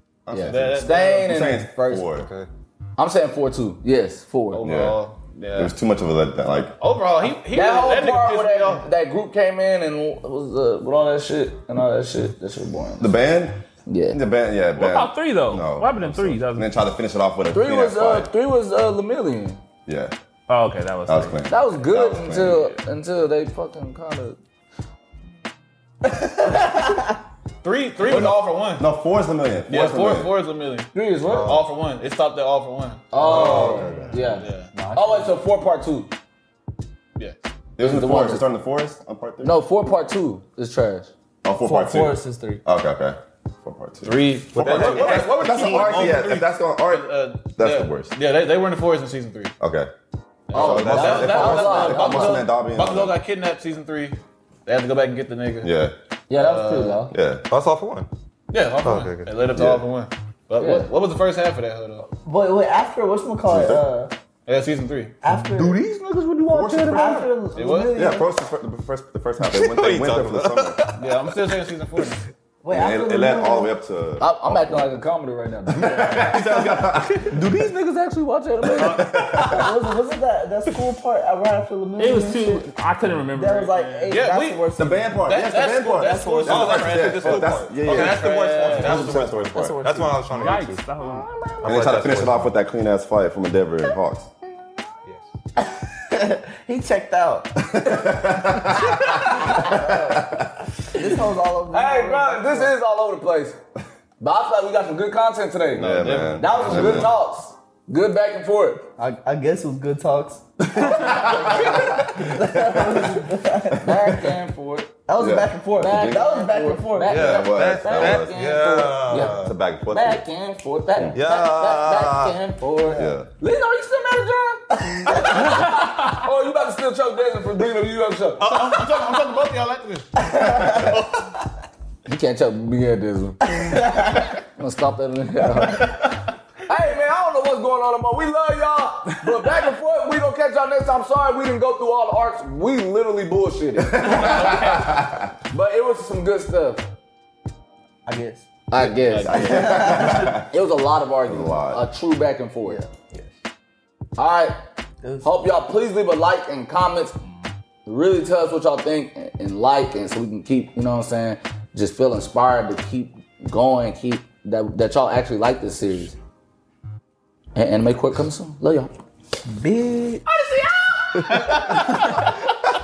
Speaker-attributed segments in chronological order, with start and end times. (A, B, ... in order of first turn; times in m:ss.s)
0:00.3-0:02.3 A
0:00.3-0:02.1 B
0:00.4-0:01.2 C
0:03.0-0:04.6 B
0:04.5-0:05.7 C
0:04.6-0:05.0 A
0:05.6-0:06.8 A
0:06.8-0:08.8 C
0:07.5-0:13.1 B
0:13.0-0:18.3 A
0:13.9-0:14.2 B
0:14.8-0:16.7 D
0:17.5-0:19.6 B
0:19.9-0:20.1 A
0:20.5-0:21.4 D
0:21.1-0:22.8 A
0:21.5-0:24.4 B
0:27.6-0:28.9 C
0:28.0-0:30.3 A
0:29.7-0:33.1 C
0:30.9-0:31.6 B
0:31.3-0:31.6 E
0:33.1-0:36.1 B
0:33.2-0:34.0 E
0:33.2-0:34.2 A
0:33.3-0:35.4 F
0:34.4-0:34.7 C
0:37.8-0:39.6 A
0:37.8-0:38.5 B
0:39.4-0:41.1 B
0:41.4-0:48.1 A
0:41.6-0:42.6 F
0:44.0-0:49.5 C
0:44.5-0:45.3 E
0:44.9-0:46.3 D
0:49.6-0:49.9 A
0:50.5-0:55.7 C
0:50.5-0:53.2 A
0:50.5-0:52.5 B
0:55.6-0:55.9 A
0:56.3-0:57.1 B
0:56.3-0:57.0 C
0:57.1-0:57.4 A
0:57.5-0:58.1 E
0:58.5-1:02.1 C
0:58.8-0:59.4 E
0:59.5-0:59.8 A
1:00.6-1:00.9 B
1:02.2-1:04.1 F
1:03.4-1:03.9 A
1:04.5-1:05.1 C
1:05.2-1:08.3 F
1:05.3-1:07.1 E
1:06.5-1:07.3 A
1:07.5-1:08.1 C
1:07.9-1:10.9 A
1:09.4-1:11.4 E
1:11.0-1:12.2 C
1:12.6-1:13.8 F
1:12.7-1:15.0 A
1:14.2-1:19.7 B
1:15.8-1:17.5 A
1:18.7-1:19.9 A
1:19.5-1:22.7 F
1:22.0-1:24.2 D
1:23.3-1:25.3 F
1:24.1-1:24.6 C
1:24.8-1:29.9 A
1:25.3-1:29.2 C
1:26.0-1:26.9 F
1:26.5-1:30.8 E
1:29.2-1:30.6 F
1:30.3-1:31.6 D
1:31.6-1:32.6 E
1:31.6-1:34.3 A
1:36.1-1:38.2 F
1:37.8-1:40.5 A
1:38.8-1:39.6 B
1:38.8-1:40.3 F
1:41.0-1:42.7 F
1:41.7-1:43.6 B
1:44.2-1:48.9 B
1:45.8-1:47.1 A
1:45.8-1:47.1 C
1:49.0-1:54.0 F
1:50.9-1:52.2 A
1:53.8-1:55.0 B
1:55.1-1:57.3 F
1:55.2-1:56.4 A
1:55.8-2:08.7 B
1:57.1-1:59.6 E
1:57.1-2:00.2 A
2:01.1-2:02.4 E
2:02.9-2:03.3 A
2:04.9-2:05.5 F
2:05.8-2:06.2 D
2:08.4-2:10.9 C
2:08.4-2:09.1 E
2:10.3-2:10.9 F
2:12.1-2:13.8 B
2:13.6-2:14.2 F
2:14.6-2:16.0 B
2:16.7-2:24.9 B
2:23.8-2:25.2 A
2:24.0-2:24.9 C
2:25.5-2:26.9 B
2:28.1-2:28.5 F
2:28.7-2:32.8 B
2:28.8-2:30.0 C
2:29.2-2:30.5 A
2:29.5-2:30.2 F
2:31.3-2:31.8 A
2:34.2-2:34.6 B
2:35.0-2:35.3 F
2:35.2-2:37.1 B
2:37.9-2:46.1 B
2:47.6-2:48.9 B
2:49.5-2:50.2 F
2:51.1-2:52.3 C
2:51.2-2:52.2 D